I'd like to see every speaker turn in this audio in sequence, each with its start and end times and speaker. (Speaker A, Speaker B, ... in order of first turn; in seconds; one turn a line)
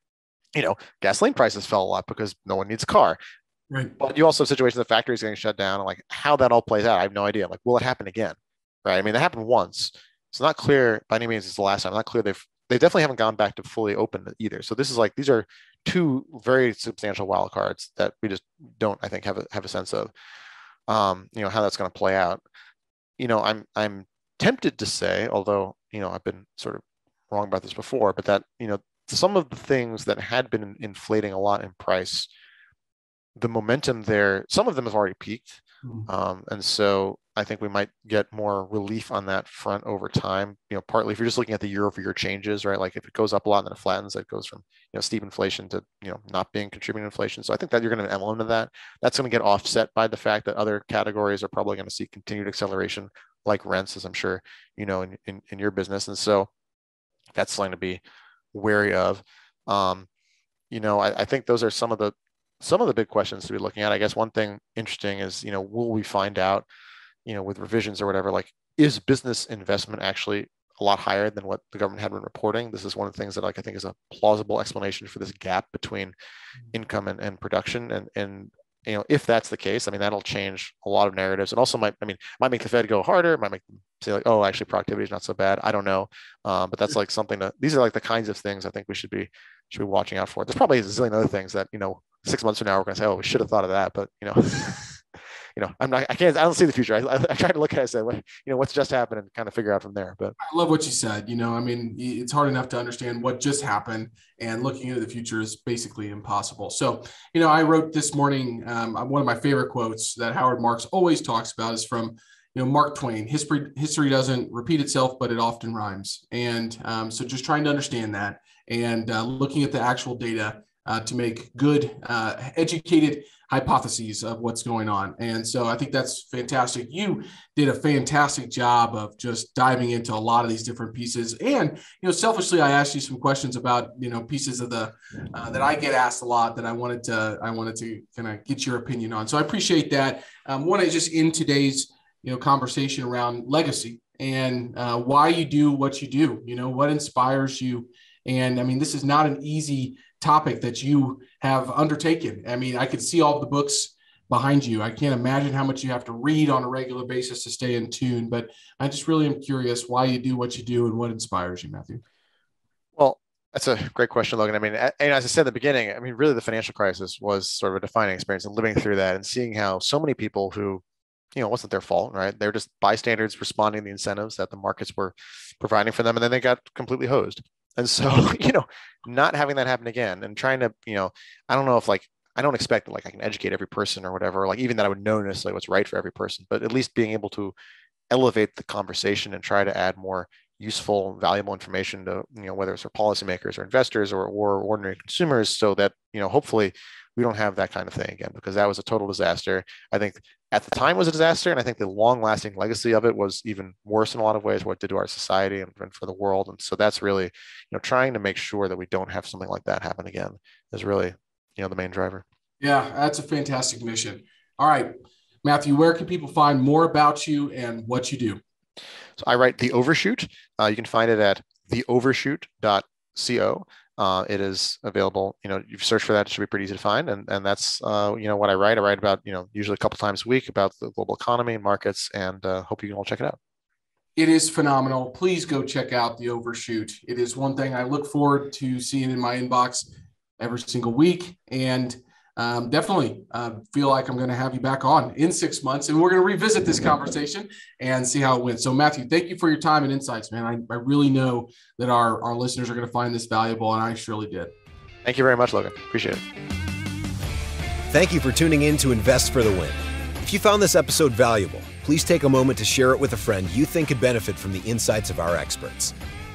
Speaker A: 0.6-3.2
Speaker A: 4.0-20.1
Speaker A: 20.9-22.4
Speaker A: 23.2-32.3
Speaker A: 33.4-56.5
Speaker B: 35.8-36.1
Speaker A: 57.4-58.0
Speaker A: 58.5-60.1
Speaker A: 60.7-66.7
Speaker A: 67.3-76.1
Speaker A: 76.7-95.0
Speaker A: 95.6-100.3
Speaker B: 100.4-162.0
Speaker A: 163.0-170.8
Speaker A: 171.3-187.5
Speaker A: 188.1-212.2
Speaker B: 212.6-218.4
Speaker A: 219.2-233.4
Speaker B: 234.2-254.5
Speaker A: 255.0-256.2
Speaker C: 257.9-265.9